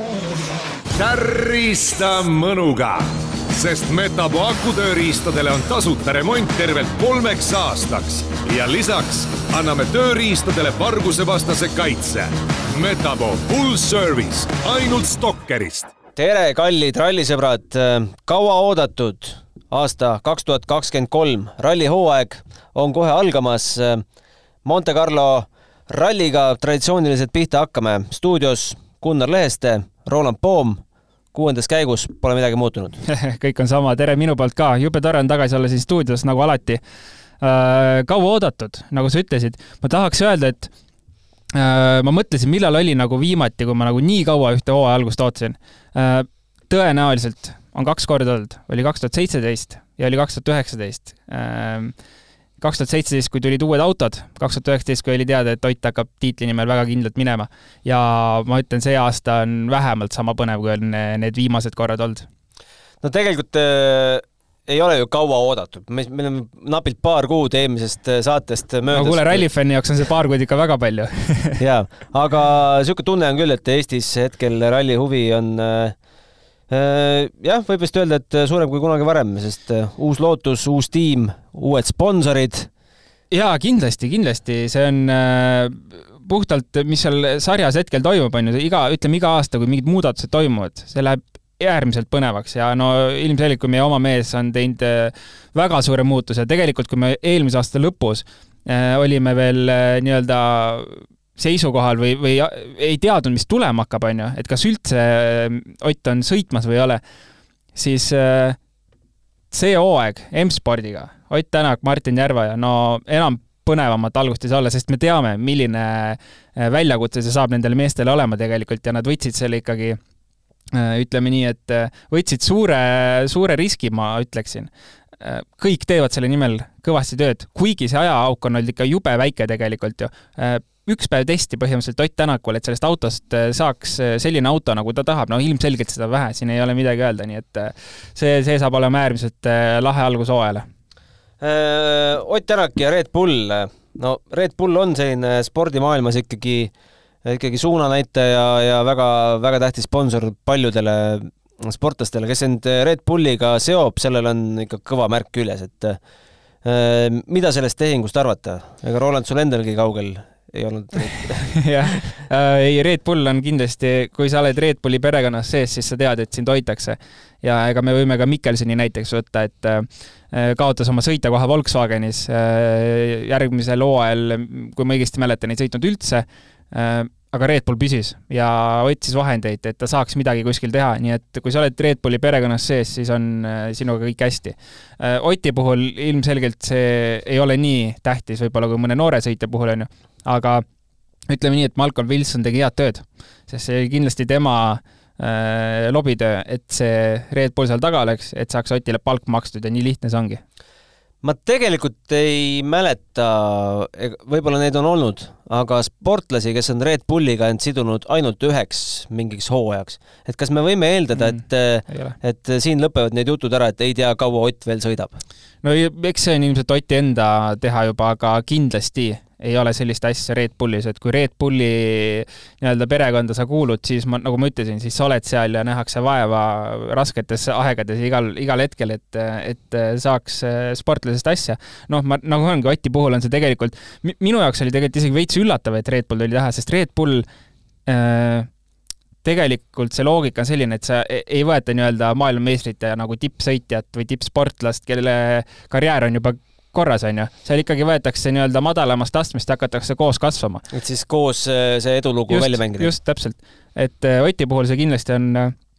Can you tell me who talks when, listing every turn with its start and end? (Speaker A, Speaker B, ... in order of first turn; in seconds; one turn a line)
Speaker A: 0.9-15.9
Speaker B: 16.2-24.0
Speaker B: 24.6-30.8
Speaker B: 31.3-33.0
Speaker C: 33.1-36.8
Speaker C: 37.4-40.7
Speaker C: 41.5-51.9
Speaker C: 52.6-62.3
Speaker B: 63.0-69.5
Speaker C: 68.9-71.6
Speaker B: 71.6-76.0
Speaker B: 76.7-82.7
Speaker C: 83.3-107.0
Speaker C: 107.8-108.6
Speaker C: 109.5-120.0
Speaker C: 120.7-124.7
Speaker C: 125.2-140.7
Speaker B: 141.4-146.7
Speaker B: 147.2-156.0
Speaker B: 156.6-161.6
Speaker C: 161.6-190.6
Speaker C: 191.3-200.4
Speaker B: 201.2-215.2
Speaker C: 211.2-212.2
Speaker C: 215.6-237.3
Speaker C: 237.9-238.5
Speaker C: 239.2-250.7
Speaker B: 250.7-252.9
Speaker C: 252.3-255.6